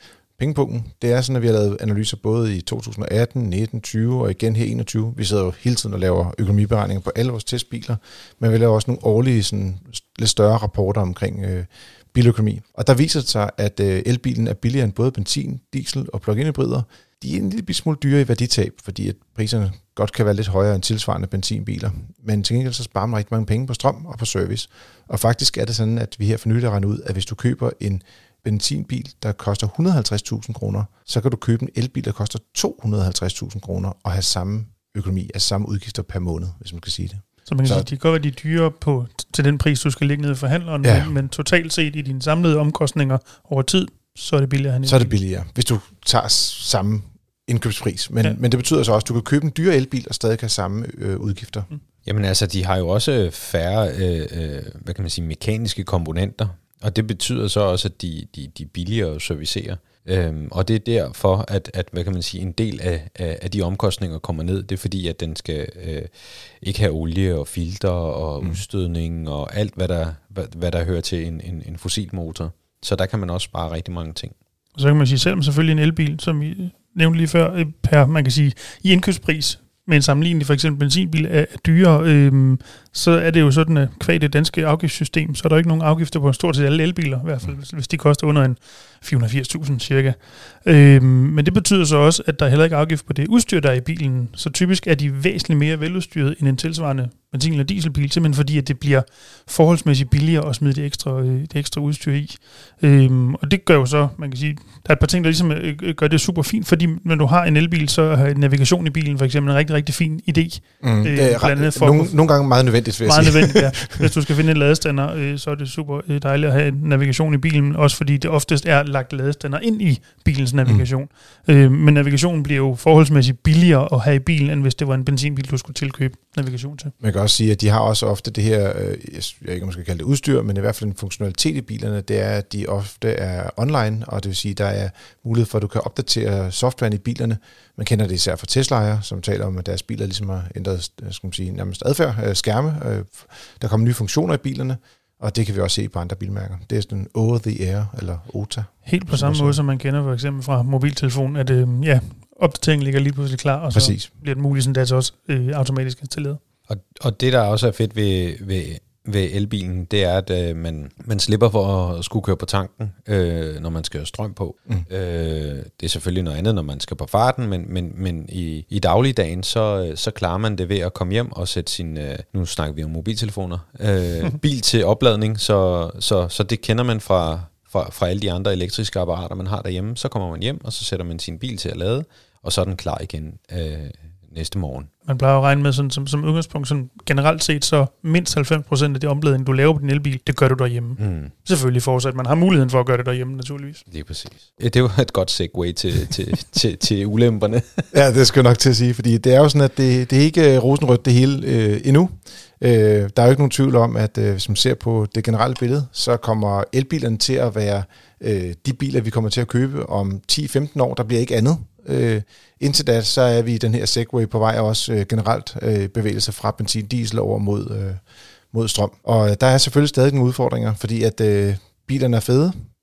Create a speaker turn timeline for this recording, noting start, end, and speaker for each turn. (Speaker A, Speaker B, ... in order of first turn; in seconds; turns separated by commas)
Speaker A: 0.4-37.9, Speaker B: 37.5-45.1, Speaker A: 40.8-41.1, Speaker A: 44.9-51.7, Speaker C: 52.0-74.3, Speaker B: 74.8-112.2, Speaker A: 110.8-114.1, Speaker B: 113.0-126.9, Speaker A: 127.0-149.6, Speaker B: 148.8-156.4, Speaker A: 153.7-154.1, Speaker C: 156.7-184.9, Speaker B: 185.1-193.8, Speaker C: 191.0-191.3, Speaker C: 193.9-197.9, Speaker A: 197.9-222.6